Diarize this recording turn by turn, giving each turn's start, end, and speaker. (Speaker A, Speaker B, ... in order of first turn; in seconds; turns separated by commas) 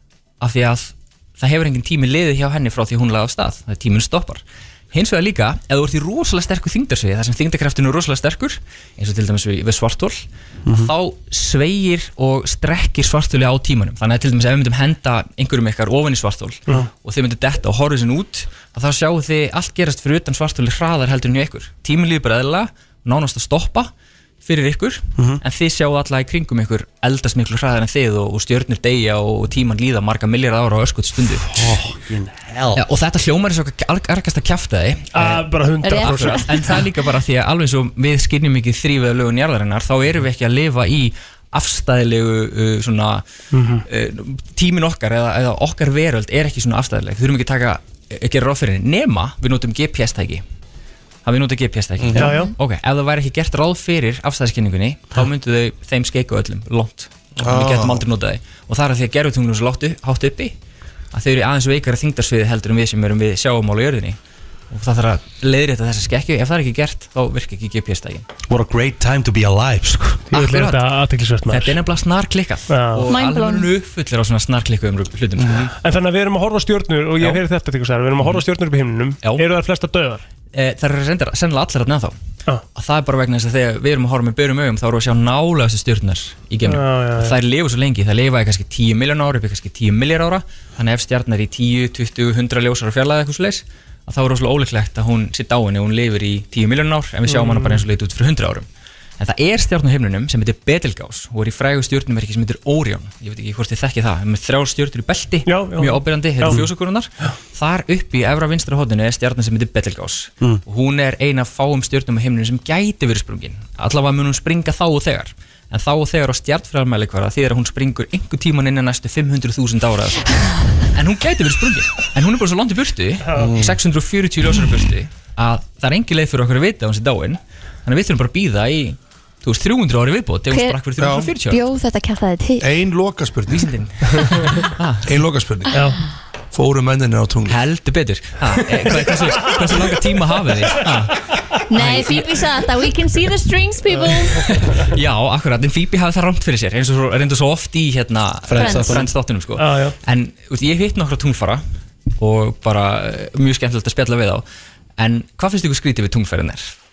Speaker A: 0.4-23.9, Speaker B: 10.7-10.9, Speaker A: 24.4-31.7, Speaker B: 31.3-32.8, Speaker A: 32.7-43.2, Speaker C: 35.1-36.8, Speaker D: 35.8-36.6, Speaker C: 43.5-43.9, Speaker A: 43.9-50.4, Speaker A: 51.2-60.5, Speaker E: 52.0-52.3, Speaker C: 52.1-52.5, Speaker E: 57.4-58.1, Speaker A: 61.1-64.2, Speaker A: 64.7-68.3, Speaker B: 68.5-70.3, Speaker C: 70.3-71.8, Speaker A: 70.3-70.9, Speaker A: 71.5-75.7, Speaker C: 72.7-73.1, Speaker D: 73.1-73.7, Speaker E: 75.4-75.7, Speaker C: 75.8-80.2, Speaker A: 80.5-82.2, Speaker A: 82.8-98.7, Speaker C: 86.7-87.4, Speaker C: 97.3-97.8, Speaker A: 99.2-131.6, Speaker C: 105.5-106.6, Speaker E: 123.3-123.8, Speaker D: 130.5-130.8, Speaker E: 131.0-131.3, Speaker D: 131.5-132.7, Speaker E: 132.6-135.8, Speaker A: 133.5-135.2, Speaker C: 135.7-136.0, Speaker E: 136.5-137.6, Speaker A: 137.5-142.4, Speaker C: 139.0-139.7, Speaker D: 141.7-144.5, Speaker A: 144.4-151.6, Speaker B: 148.5-149.1, Speaker D: 148.6-149.1, Speaker C: 149.6-150.0, Speaker A: 152.2-154.4, Speaker A: 155.0-156.7